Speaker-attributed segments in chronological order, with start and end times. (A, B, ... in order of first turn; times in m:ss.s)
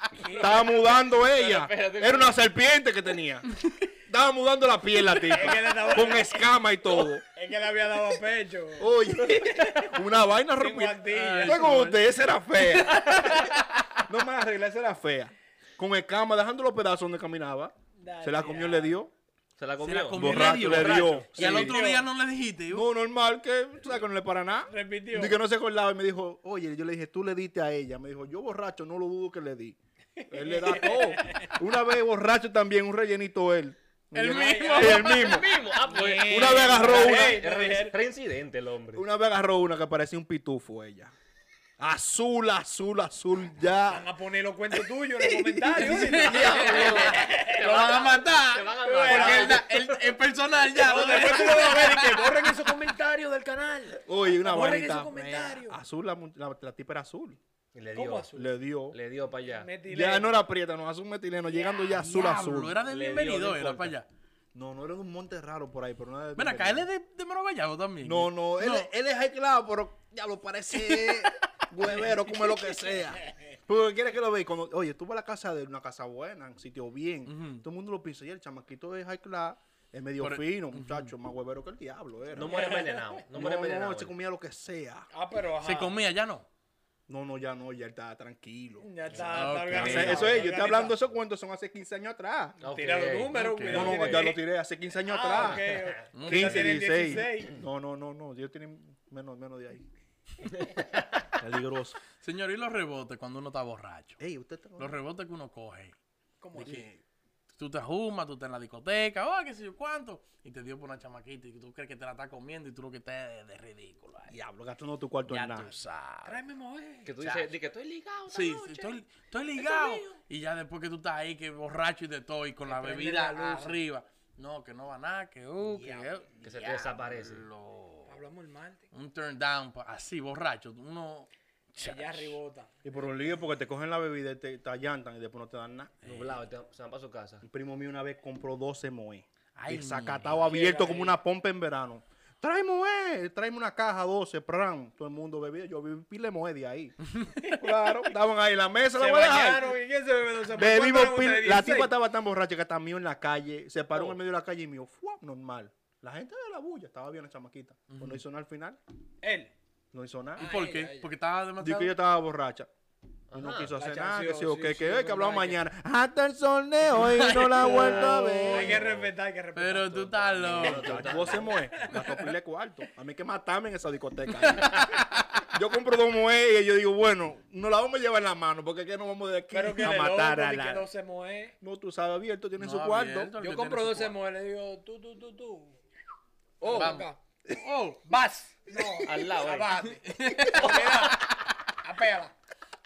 0:00.1-0:00.8 A
0:00.4-0:03.5 B
0:01.0-0:02.4 C
0:04.1-0:07.2 B
0:05.2-0:06.4 A
0:07.0-0:10.0 A
0:08.8-0:13.3 B
0:10.6-0:11.7 A
0:11.1-0:12.0 D
0:14.0-0:19.1 B
0:18.0-0:19.0 A
0:19.6-0:21.3 C
0:19.8-0:22.9 D
0:20.2-0:21.8 B
0:21.4-0:22.1 A
0:22.7-0:29.8 B
0:24.7-0:25.4 A
0:30.3-0:35.5 B
0:30.4-0:31.5 A
0:34.1-0:35.3 D
0:34.2-0:35.1 A
0:34.9-0:39.0 C
0:35.8-0:38.0 A
0:36.2-0:37.4 B
0:39.0-0:41.1 B
0:41.8-0:44.1 B
0:43.9-0:48.2 A
0:45.2-0:47.2 B
0:45.8-0:52.2 D
0:46.4-0:50.0 C
0:48.8-0:49.6 A
0:50.7-0:55.8 A
0:51.3-0:52.2 B
0:54.0-0:57.4 B
0:57.7-0:58.3 C
0:57.9-0:58.5 A
0:58.3-0:59.0 B
0:58.9-0:59.7 C
0:59.5-1:00.4 A
0:59.9-1:02.8 B
1:01.9-1:04.1 D
1:02.9-1:03.9 C
1:04.5-1:06.9 B
1:06.4-1:08.9 D
1:08.0-1:25.1 B
1:10.8-1:11.3 D
1:17.3-1:17.6 D
1:20.2-1:21.1 D
1:22.3-1:24.1 C
1:22.5-1:23.2 A
1:25.1-1:26.0 A
1:25.6-1:26.5 D
1:27.1-1:32.6 B
1:28.8-1:31.0 A
1:29.1-1:30.5 C
1:29.2-1:30.4 D
1:32.6-1:34.0 C
1:32.6-1:34.4 A
1:33.3-1:34.2 D
1:33.7-1:35.6 B
1:35.0-1:37.6 A
1:35.4-1:36.0 C
1:36.1-1:36.8 D
1:36.2-1:39.9 B
1:41.4-1:42.0 B
1:42.2-1:44.2 D
1:44.2-1:45.0 B
1:44.8-1:45.9 D
1:46.4-1:46.9 A
1:46.6-1:47.0 B
1:46.6-1:46.8 D
1:47.5-1:54.3 D
1:54.3-1:55.7 B
1:55.3-1:56.4 D
1:56.2-1:57.1 A
1:57.0-1:59.0 C
1:58.3-2:08.2 D
1:59.7-2:00.0 C
2:02.7-2:03.8 A
2:05.6-2:06.1 A
2:06.4-2:07.5 C
2:08.1-2:08.9 A
2:08.9-2:12.4 D
2:11.8-2:12.7 A
2:12.8-2:16.1 B
2:16.0-2:17.4 C
2:16.1-2:16.3 D
2:17.4-2:27.0 B
2:19.6-2:20.5 D
2:20.4-2:21.2 A
2:27.4-2:27.7 A
2:27.5-2:29.7 B
2:29.0-2:31.9 A
2:30.5-2:38.8 B
2:37.9-2:38.2 D
2:39.2-2:39.5 A
2:39.9-2:40.5 B
2:40.4-2:41.1 A
2:40.4-2:41.9 D
2:41.6-2:42.7 B
2:43.3-2:43.7 C
2:43.3-2:48.9 B
2:43.7-2:45.6 A
2:46.9-2:48.7 D
2:47.6-2:52.0 A
2:47.7-2:49.1 C
2:49.6-2:51.1 D
2:50.4-2:51.6 C
2:50.4-3:00.9 B
2:54.4-2:55.2 D
2:59.5-3:01.6 A
3:01.6-3:03.3 B
3:02.6-3:04.2 D
3:03.4-3:05.8 A
3:06.6-3:07.2 A
3:06.6-3:08.0 D
3:08.0-3:11.3 A
3:08.9-3:09.8 C
3:10.1-3:11.4 D
3:10.5-3:11.1 C
3:11.8-3:12.4 A